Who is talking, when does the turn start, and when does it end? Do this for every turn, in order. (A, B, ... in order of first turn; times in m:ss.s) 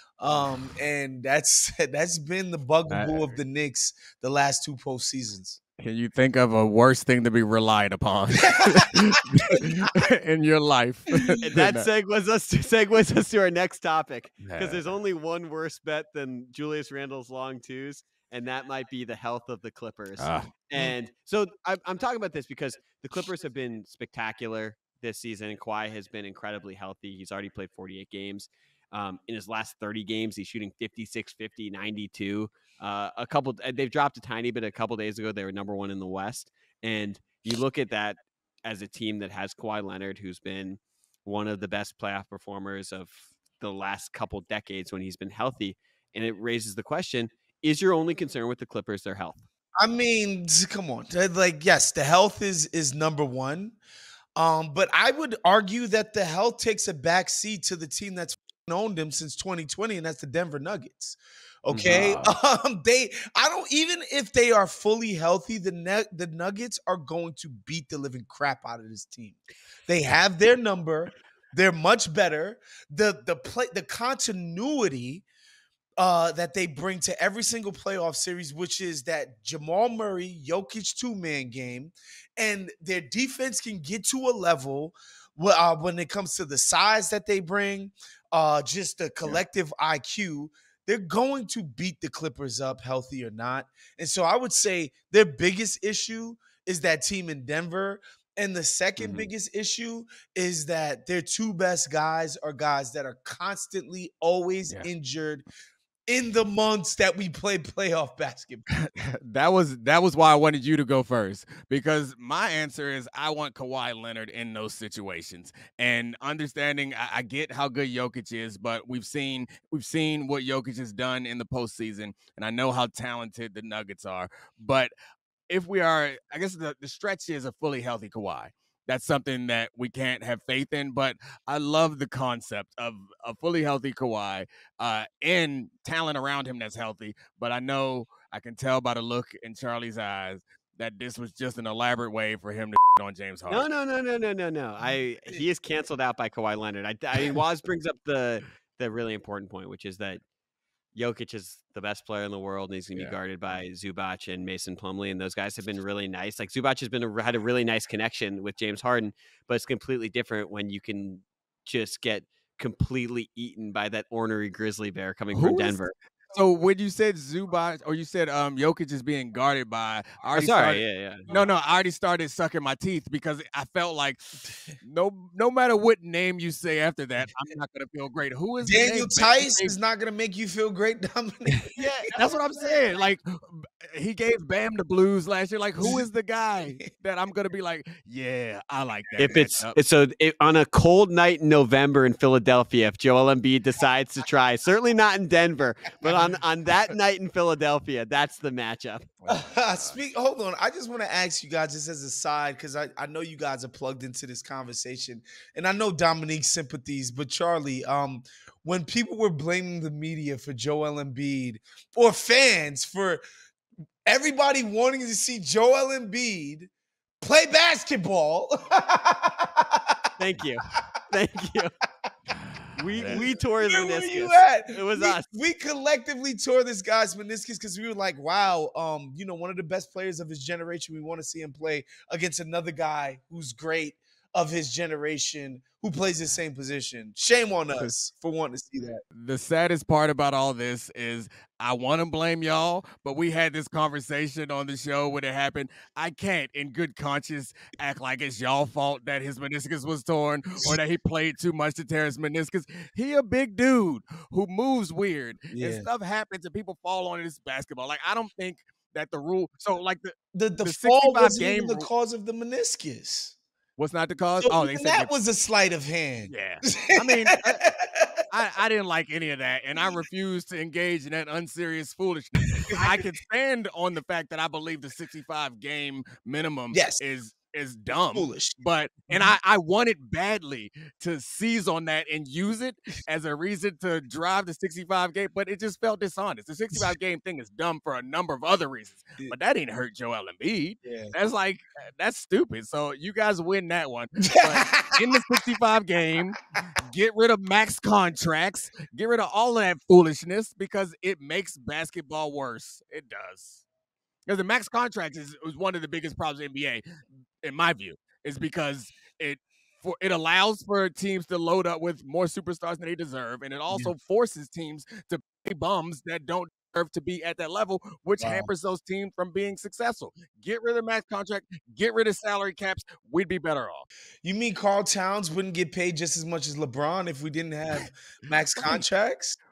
0:00.2-0:05.6 A
0:02.9-0:03.4 B
0:05.8-0:11.9 B
0:08.5-0:09.6 A
0:11.4-0:49.4 C
0:14.4-0:14.9 B
0:20.2-0:20.9 B
0:49.8-0:53.8 A
0:54.4-1:15.2 A
1:01.7-1:02.4 B
1:16.0-1:45.5 A
1:39.0-1:39.3 B
1:46.1-1:48.7 A
1:48.8-2:04.9 B
2:05.5-2:23.7 B
2:23.5-2:30.2 C
2:31.0-2:45.9 C
2:45.3-2:45.8 B
2:46.3-2:54.2 B
2:50.3-2:51.3 C
2:54.8-2:59.8 B
2:58.6-3:02.8 A
3:01.7-3:09.8 B
3:01.8-3:02.1 C
3:09.2-3:19.1 C
3:19.2-3:20.0 B
3:19.3-3:33.2 A
3:34.1-3:36.7 A
3:37.2-3:40.0 A
3:40.2-3:41.7 C
3:42.4-3:43.3 B
3:42.8-3:45.3 C
3:43.0-3:59.0 A
3:59.1-4:21.9 B
4:15.5-4:15.9 A
4:20.3-4:23.4 A
4:23.8-4:25.1 B
4:24.4-4:28.1 A
4:26.3-4:27.6 B
4:28.3-5:03.6 B
4:32.6-4:32.9 A
4:36.7-4:37.0 A
4:38.1-4:38.6 A
4:50.8-4:51.1 A
4:54.2-4:55.1 A
5:04.3-5:06.8 B
5:07.4-5:23.9 B
5:18.2-5:18.5 A
5:24.2-5:29.4 A